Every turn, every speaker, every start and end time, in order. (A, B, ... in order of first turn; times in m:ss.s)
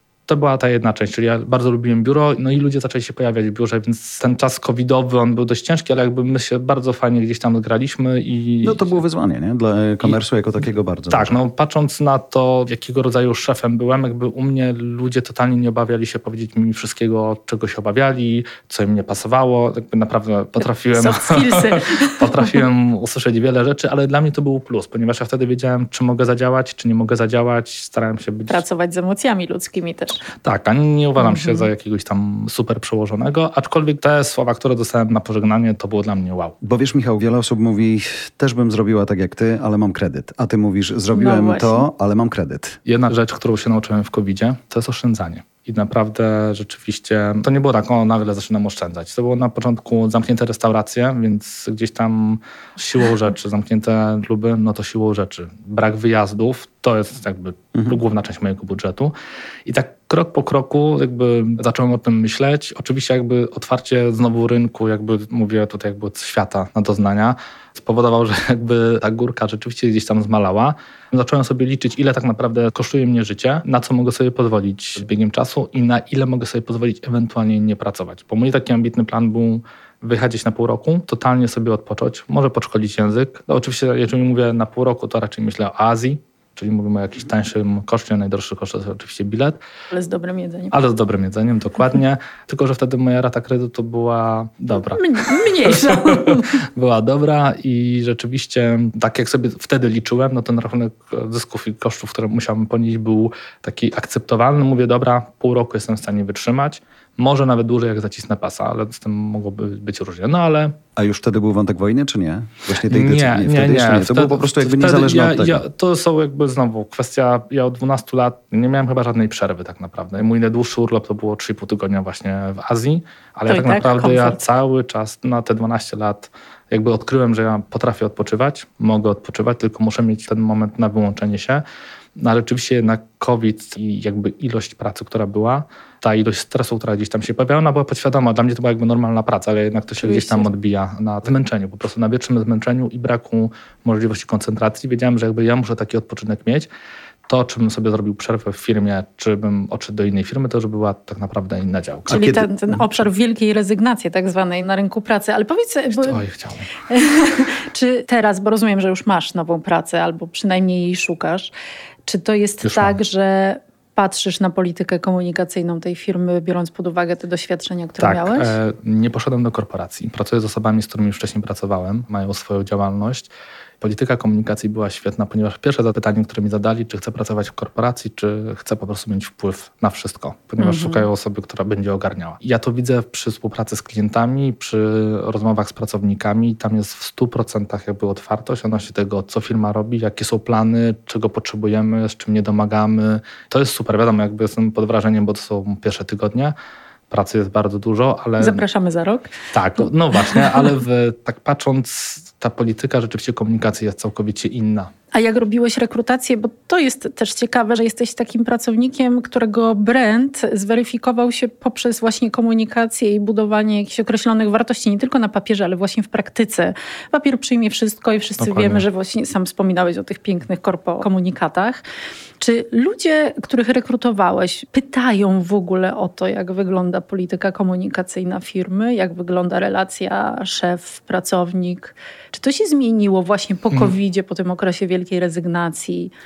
0:00.3-0:09.0 A
0:08.6-0:11.4 B
0:11.1-0:28.6 A
0:20.6-0:22.6 C
0:28.5-0:30.2 C
0:30.4-0:36.6 A
0:31.2-0:31.7 C
0:36.6-0:42.8 B
0:41.1-0:41.8 C
0:42.9-0:59.1 A
0:59.6-1:29.6 A
1:29.9-1:30.7 C
1:30.7-1:50.8 A
1:34.8-1:36.6 C
1:51.0-1:55.6 B
1:52.9-2:11.6 A
2:03.5-2:04.4 C
2:12.2-2:26.7 A
2:20.0-2:20.5 C
2:27.3-2:32.2 A
2:32.1-2:36.2 C
2:32.1-2:32.8 B
2:36.0-2:36.7 A
2:36.9-2:41.5 C
2:42.1-2:48.6 C
2:42.6-2:43.0 A
2:48.0-3:16.6 A
3:00.6-3:01.1 C
3:17.1-3:18.6 A
3:18.4-3:19.3 C
3:19.5-3:24.9 A
3:25.1-3:41.8 C
3:38.4-3:38.9 A
3:42.4-3:56.1 C
3:53.7-3:54.0 A